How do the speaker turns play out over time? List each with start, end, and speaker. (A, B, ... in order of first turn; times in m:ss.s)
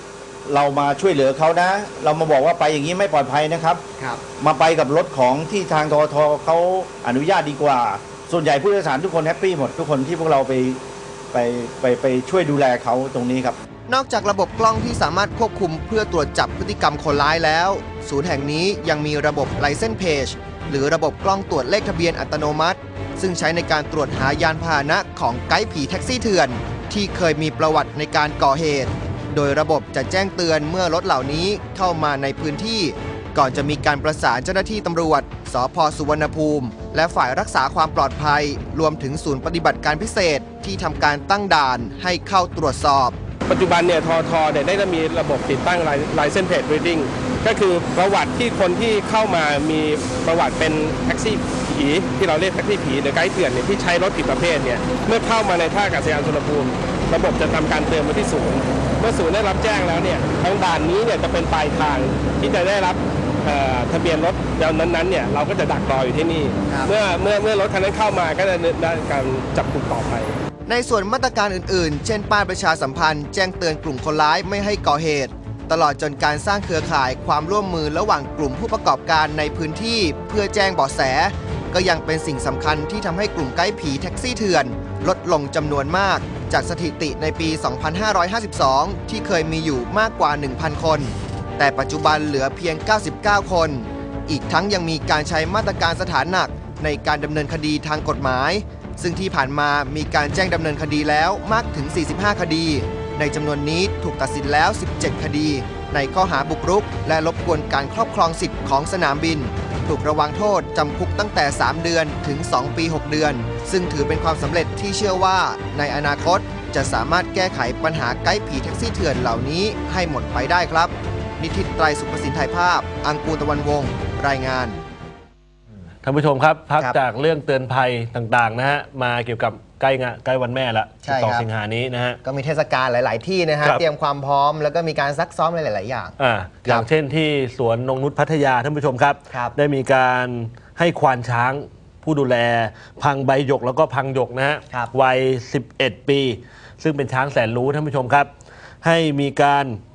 0:00.4-0:03.8 A
0:04.4-0:13.6 A
0:13.9-0:43.2 B
0:43.5-1:10.4 C
1:10.7-2:04.8 B
2:06.0-2:12.2 D
2:11.0-2:11.5 B
2:12.2-2:16.9 B
2:16.2-2:28.3 D
2:19.3-2:19.6 B
2:28.8-2:29.8 D